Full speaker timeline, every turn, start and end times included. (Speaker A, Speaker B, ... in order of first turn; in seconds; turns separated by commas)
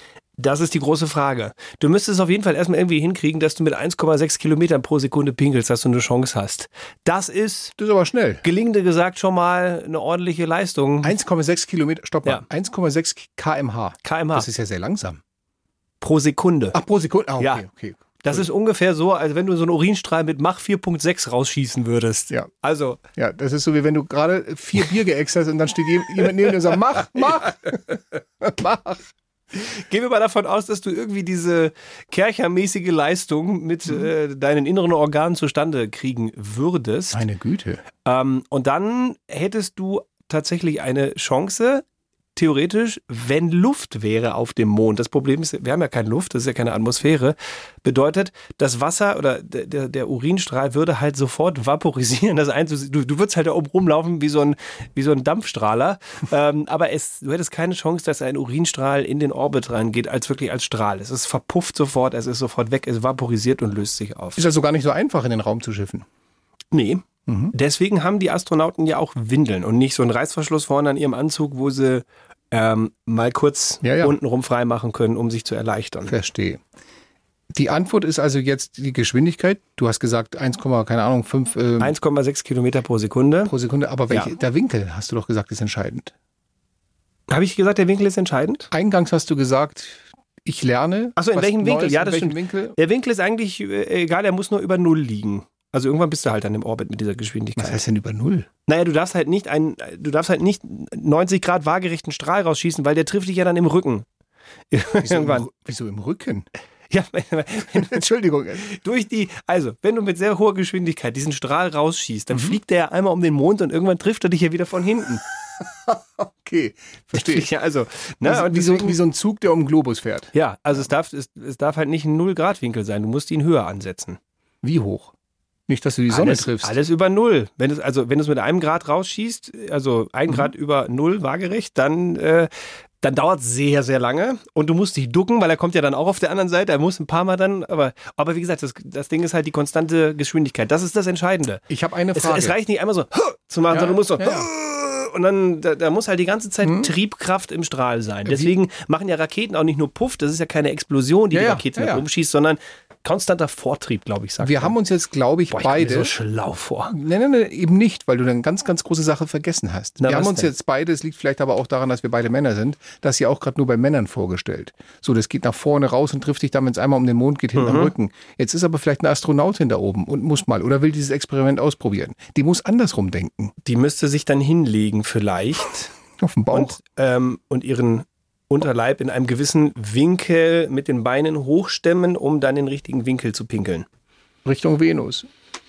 Speaker A: 0.4-7.7, Speaker B: 7.8-8.4, Speaker A: 8.4-11.1, Speaker B: 11.0-15.2, Speaker A: 14.0-14.5, Speaker A: 16.0-16.8, Speaker B: 16.7-18.4, Speaker A: 18.2-23.0, Speaker B: 23.1-29.0, Speaker A: 29.5-37.2, Speaker B: 37.1-37.8, Speaker A: 38.0-64.4, Speaker B: 64.4-66.0, Speaker A: 66.7-76.1, Speaker B: 67.3-67.5, Speaker B: 73.8-74.1, Speaker B: 76.1-76.6, Speaker B: 77.5-81.9, Speaker A: 81.8-83.5, Speaker B: 83.5-86.1, Speaker A: 87.3-88.7, Speaker B: 88.7-92.8, Speaker A: 91.2-97.8, Speaker B: 97.6-98.5, Speaker A: 98.7-104.0, Speaker A: 104.7-105.5, Speaker B: 105.0-106.5, Speaker A: 106.9-108.0, Speaker B: 107.7-108.7, Speaker A: 108.7-115.2, Speaker B: 116.4-117.5, Speaker A: 117.1-119.0, Speaker B: 118.2-120.3, Speaker A: 120.3-124.2, Speaker B: 124.6-125.1, Speaker B: 125.7-126.7, Speaker A: 126.1-132.5, Speaker A: 133.0-141.6, Speaker B: 141.7-142.6, Speaker A: 142.1-154.7, Speaker B: 143.7-144.5, Speaker B: 146.6-146.9, Speaker B: 151.3-152.0, Speaker B: 154.4-156.1, Speaker A: 155.5-156.9, Speaker B: 156.9-173.5, Speaker A: 160.0-160.5, Speaker A: 167.5-167.9, Speaker A: 173.6-175.9, Speaker B: 176.2-176.8, Speaker A: 176.5-183.8, Speaker B: 184.4-185.3